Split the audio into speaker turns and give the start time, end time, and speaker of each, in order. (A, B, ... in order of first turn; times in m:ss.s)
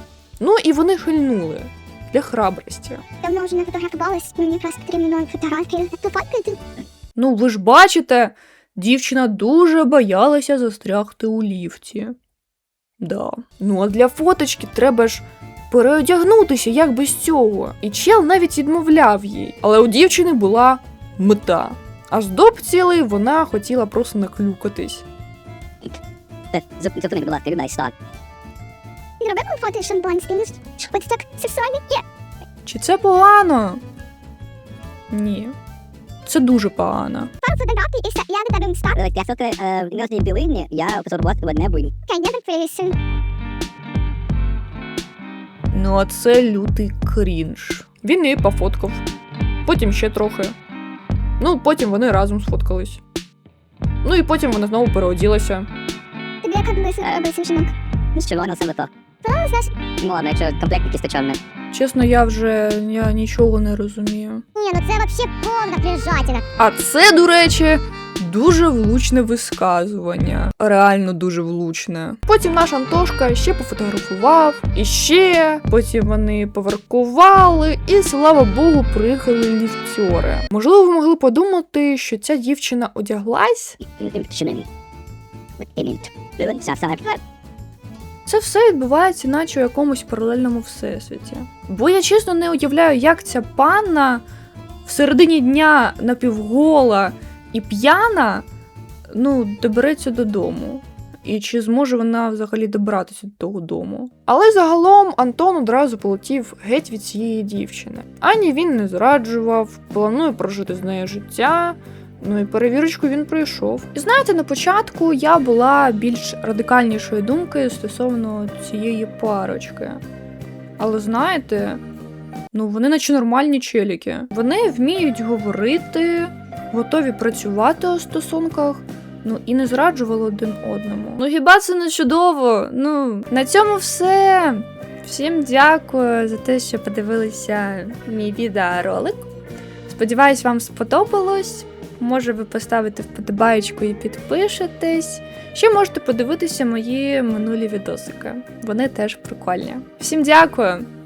0:00.4-0:03.0 A
0:03.2-0:06.6 B
0:07.2-0:12.2 A
0:13.0-0:25.0 A
0:26.5-0:27.9 C
0:29.2-0:32.0 B
0:32.6-0:33.8 A
0:35.1-0:35.6 A
0:36.2-0:37.3 A
0:37.4-0:39.0 B
0:39.0-0:41.9 C
0:42.1-0:43.0 B
0:45.7-0:49.0 A
0:49.6-0:50.5 A
0:51.4-0:53.0 A
0:54.0-0:55.7 A
0:56.4-0:57.7 B
0:58.1-0:58.9 C
0:59.2-0:59.7 B
1:00.0-1:01.4 C
1:01.7-1:04.4 A
1:04.6-1:06.4 B
1:06.6-1:23.8 A
1:24.0-1:24.7 C
1:25.6-1:27.2 C
1:28.2-1:34.2 A
1:34.8-1:38.4 A
1:39.1-2:00.0 A
2:00.8-2:01.8 A
2:02.5-2:19.2 A
2:19.9-2:30.9 A